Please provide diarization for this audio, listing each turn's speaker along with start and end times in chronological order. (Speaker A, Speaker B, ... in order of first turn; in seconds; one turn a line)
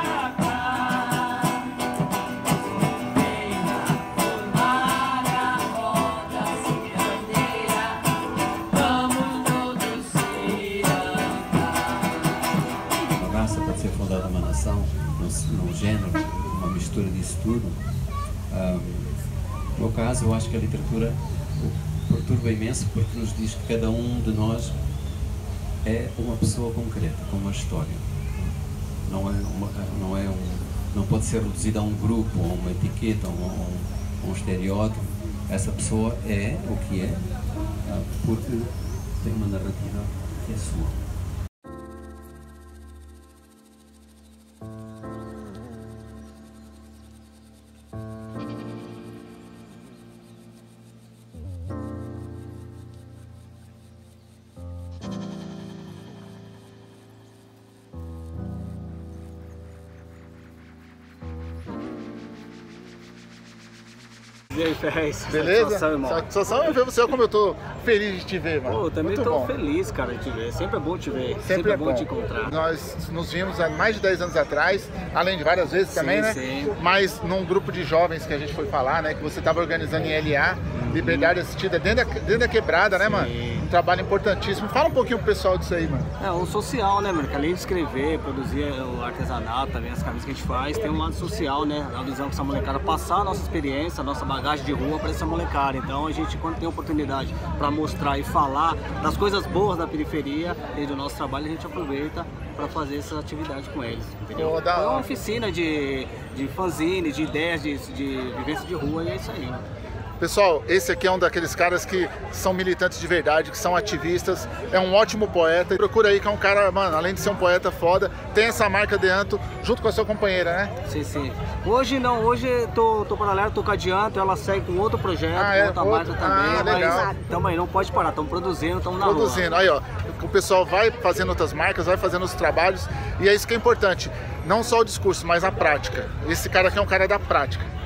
Speaker A: 13.1-17.8
Speaker A: 18.5-19.2
Speaker A: 19.8-24.8
Speaker A: 25.8-28.0
Speaker A: 29.1-37.2
Speaker A: 37.9-41.0
Speaker B: 64.5-66.3
Speaker C: 65.3-69.5
Speaker B: 68.7-72.5
Speaker C: 71.4-86.1
Speaker B: 75.9-76.7
Speaker B: 80.7-81.4
Speaker B: 83.0-83.7
Speaker B: 86.2-109.7
Speaker C: 104.3-105.1
Speaker C: 110.2-120.7
Speaker B: 120.9-129.6
Speaker C: 125.3-127.1
Speaker C: 129.0-137.7